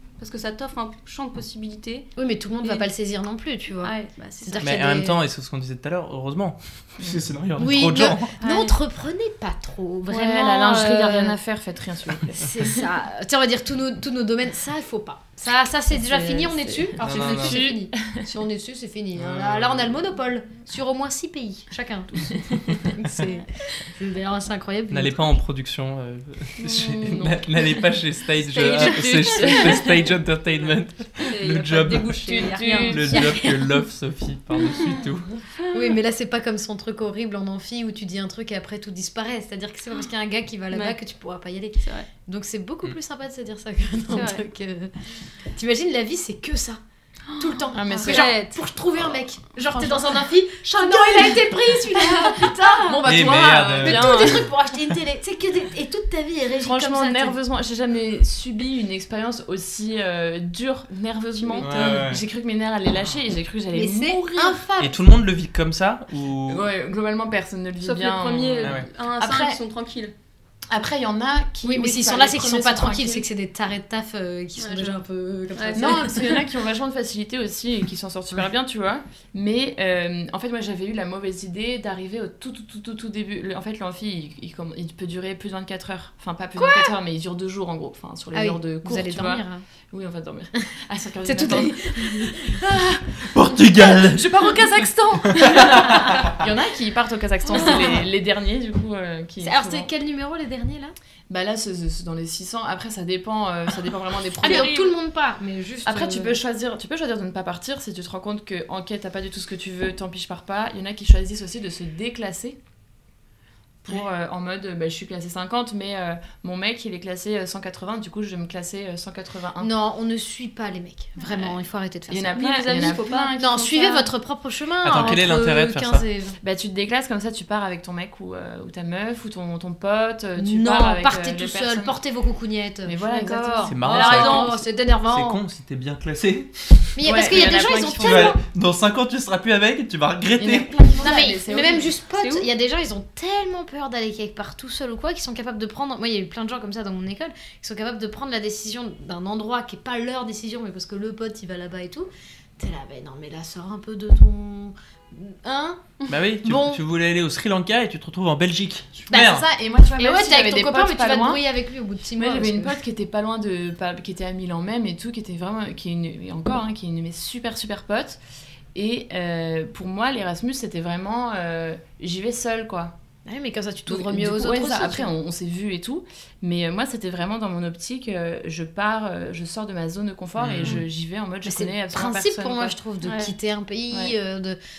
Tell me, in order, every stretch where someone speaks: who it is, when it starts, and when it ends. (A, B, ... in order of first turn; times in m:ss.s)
0:00.2-0:02.1 A
0:02.2-0:05.2 B
0:03.8-0:04.8 A
0:04.6-0:08.3 C
0:07.6-0:11.4 B
0:08.4-0:08.8 A
0:10.1-0:12.8 D
0:12.3-0:25.4 B
0:15.9-0:18.3 D
0:17.0-0:17.7 C
0:19.2-0:20.0 C
0:22.1-0:23.3 D
0:24.9-0:35.3 C
0:26.6-0:27.1 A
0:26.6-0:27.5 D
0:28.5-0:30.0 A
0:28.6-0:29.9 D
0:31.2-0:33.3 A
0:32.2-0:33.3 D
0:33.1-0:33.6 B
0:35.6-0:35.9 A
0:35.7-0:46.8 B
0:40.7-0:41.0 A
0:41.8-0:42.1 A
0:44.1-0:44.4 A
0:47.3-0:48.6 A
0:47.4-0:57.4 B
0:47.7-0:48.3 D
0:49.8-0:50.2 A
0:50.8-0:51.3 A
0:50.8-0:51.4 D
0:52.0-0:52.5 A
0:52.1-0:54.5 D
0:53.0-0:54.5 C
0:56.6-1:04.6 D
1:01.4-1:02.1 A
1:01.6-1:02.2 C
1:03.7-1:05.1 B
1:04.8-1:06.7 C
1:06.4-1:09.6 D
1:07.8-1:10.1 A
1:10.7-1:13.3 D
1:11.6-1:16.5 B
1:14.6-1:15.0 A
1:15.6-1:16.1 A
1:15.7-1:32.8 D
1:26.6-1:26.9 B
1:28.3-1:29.6 B
1:31.2-1:33.2 B
1:33.3-1:34.5 C
1:33.8-1:36.3 B
1:34.4-1:39.9 D
1:35.2-1:36.4 C
1:37.5-1:38.0 B
1:39.4-1:41.0 B
1:41.3-1:44.8 D
1:44.4-1:46.4 B
1:44.4-1:45.0 A
1:45.8-1:52.6 D
1:53.8-1:59.7 D
1:59.6-2:06.4 B
2:01.2-2:01.5 A
2:02.1-2:03.7 D
2:02.3-2:04.1 A
2:04.8-2:06.0 C
2:06.4-2:12.0 D
2:10.4-2:13.0 B
2:12.8-2:14.1 D
2:13.0-2:14.6 A
2:13.7-2:20.8 C
2:13.8-2:15.4 B
2:17.0-2:18.4 B
2:17.0-2:18.4 D
2:20.4-2:22.0 D
2:21.0-2:36.8 B
2:22.2-2:22.5 A
2:36.1-2:39.5 C
2:39.1-2:41.4 D
2:39.8-2:42.8 B
2:42.2-2:48.2 D
2:48.7-2:53.0 D
2:53.2-2:55.1 B
2:53.9-3:02.8 D
3:00.4-3:00.8 C
3:01.4-3:04.6 B
3:03.0-3:03.3 A
3:03.9-3:04.1 D